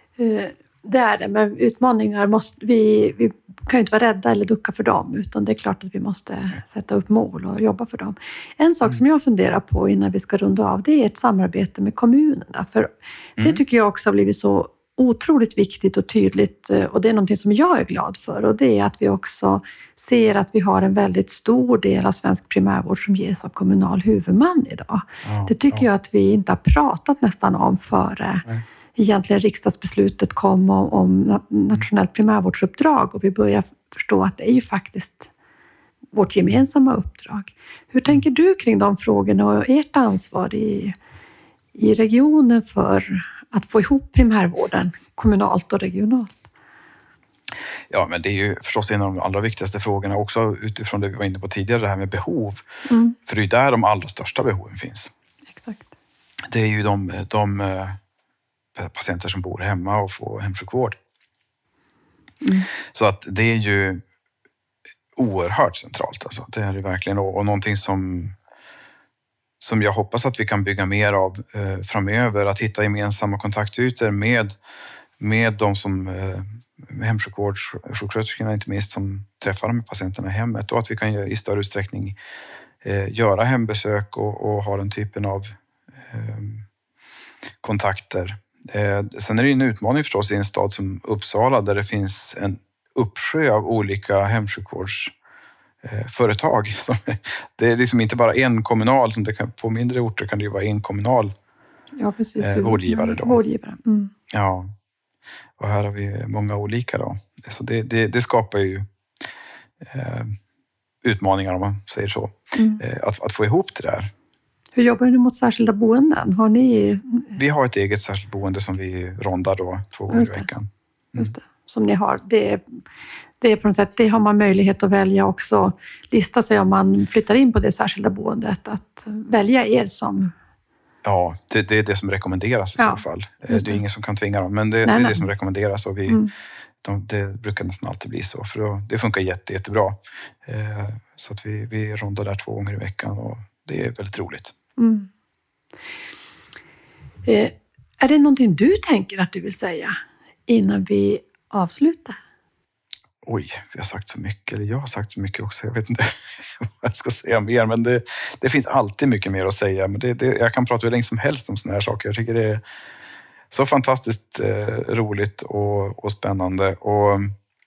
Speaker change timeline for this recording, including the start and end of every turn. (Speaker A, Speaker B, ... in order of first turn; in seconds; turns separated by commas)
Speaker A: 0.2-35.3, Speaker B: 13.4-13.6, Speaker B: 25.2-25.9, Speaker A: 36.1-40.9, Speaker A: 41.7-46.4, Speaker B: 47.9-52.6, Speaker A: 52.9-53.1, Speaker B: 53.3-55.1, Speaker A: 55.5-55.9, Speaker B: 56.5-58.0, Speaker B: 58.8-61.0, Speaker A: 62.4-62.7, Speaker B: 62.9-64.0, Speaker B: 65.2-68.3, Speaker B: 69.6-74.5, Speaker B: 75.2-82.2, Speaker B: 82.8-85.5, Speaker B: 86.1-86.6, Speaker B: 87.6-95.1, Speaker B: 95.8-101.3, Speaker A: 102.0-104.1, Speaker B: 102.4-103.4, Speaker B: 104.3-104.7, Speaker B: 105.6-108.8, Speaker B: 109.8-110.3, Speaker B: 111.0-114.1, Speaker A: 112.5-112.8, Speaker A: 114.8-117.2, Speaker B: 117.3-121.3, Speaker A: 120.1-120.5, Speaker A: 121.2-122.6, Speaker A: 123.4-130.3, Speaker B: 131.0-136.2, Speaker A: 132.8-133.8, Speaker A: 134.8-135.2, Speaker B: 136.8-144.5, Speaker A: 144.8-145.1, Speaker A: 147.2-149.9, Speaker A: 150.5-152.2, Speaker B: 153.2-162.6, Speaker B: 163.5-167.3